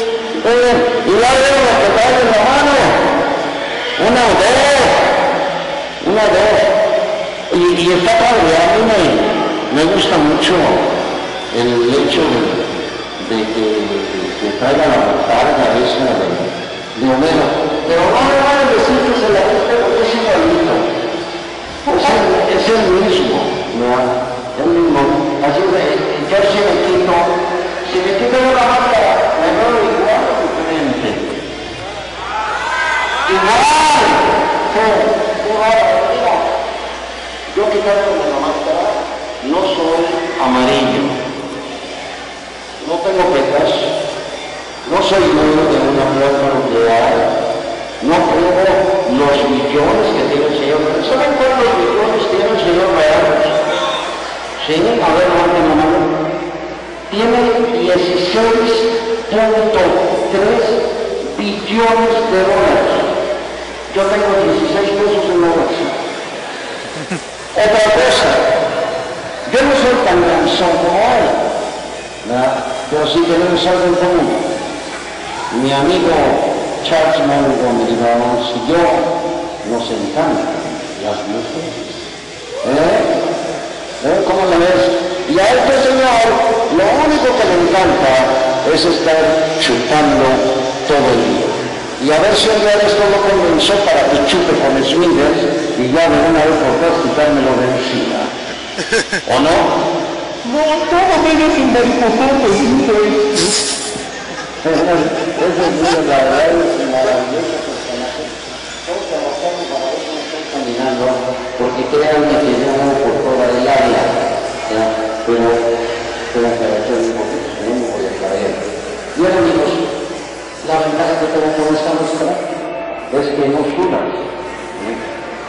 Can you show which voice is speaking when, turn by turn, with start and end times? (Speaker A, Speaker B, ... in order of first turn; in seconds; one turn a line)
Speaker A: 0.4-3.0
Speaker A: 4.0-5.0
Speaker A: 6.0-6.7
Speaker A: 7.5-10.9
Speaker A: 11.5-12.6
Speaker A: 13.2-20.9
Speaker A: 21.8-31.3
Speaker A: 33.2-36.5
Speaker A: 37.5-41.2
Speaker A: 42.8-43.9
Speaker A: 44.8-47.3
Speaker A: 48.0-53.5
Speaker A: 54.6-56.1
Speaker A: 57.1-63.1
Speaker A: 63.9-66.0
Speaker A: 67.5-68.5
Speaker A: 69.5-71.4
Speaker A: 72.2-74.4
Speaker A: 75.5-79.1
Speaker A: 79.6-82.0
Speaker A: 82.6-83.2
Speaker A: 84.0-98.3
Speaker A: 99.2-99.8
Speaker A: 100.4-103.4
Speaker A: 104.6-114.2
Speaker A: 114.7-115.6
Speaker A: 116.3-119.8
Speaker A: 120.6-122.4
Speaker A: 123.1-124.2
Speaker A: 124.8-125.0